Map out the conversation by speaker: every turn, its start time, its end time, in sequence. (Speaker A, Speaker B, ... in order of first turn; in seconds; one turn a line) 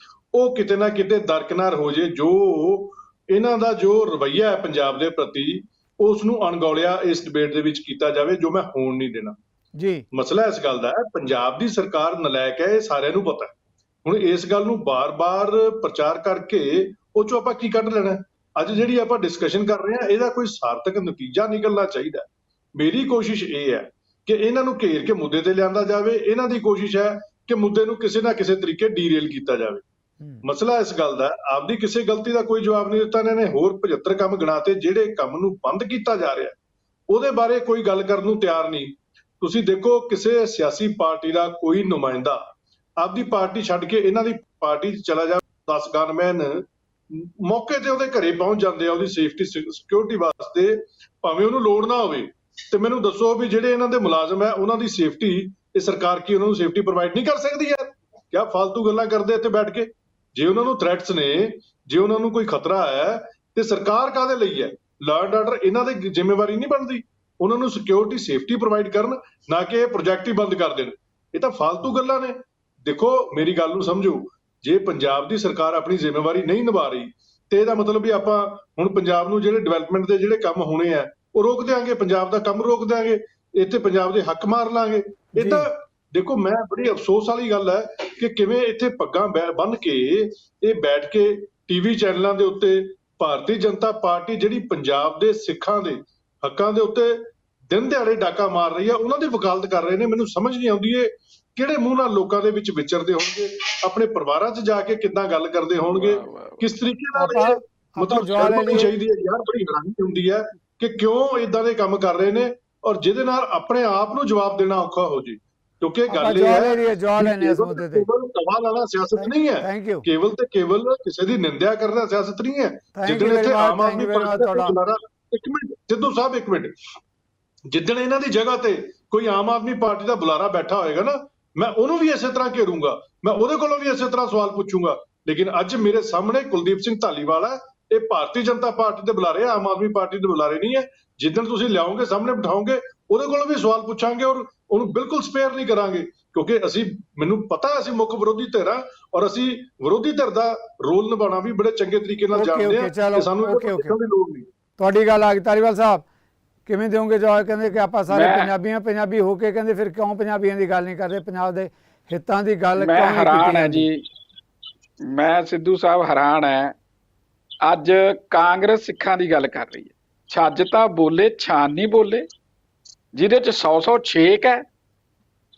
Speaker A: 0.3-9.4
Speaker B: 9.8-10.0
Speaker A: 10.1-29.8
Speaker A: 30.4-36.5
Speaker A: 37.1-126.8
Speaker B: 85.3-85.7
Speaker C: 105.9-106.7
Speaker B: 107.1-108.9
Speaker B: 116.1-118.1
Speaker B: 119.2-120.0
Speaker B: 123.0-124.8
Speaker A: 127.7-154.5
Speaker B: 152.3-153.9
Speaker B: 154.8-156.0
Speaker B: 156.7-163.9
Speaker C: 158.1-158.5
Speaker C: 162.8-164.0
Speaker C: 165.0-166.7
Speaker C: 167.6-172.2
Speaker C: 173.1-174.6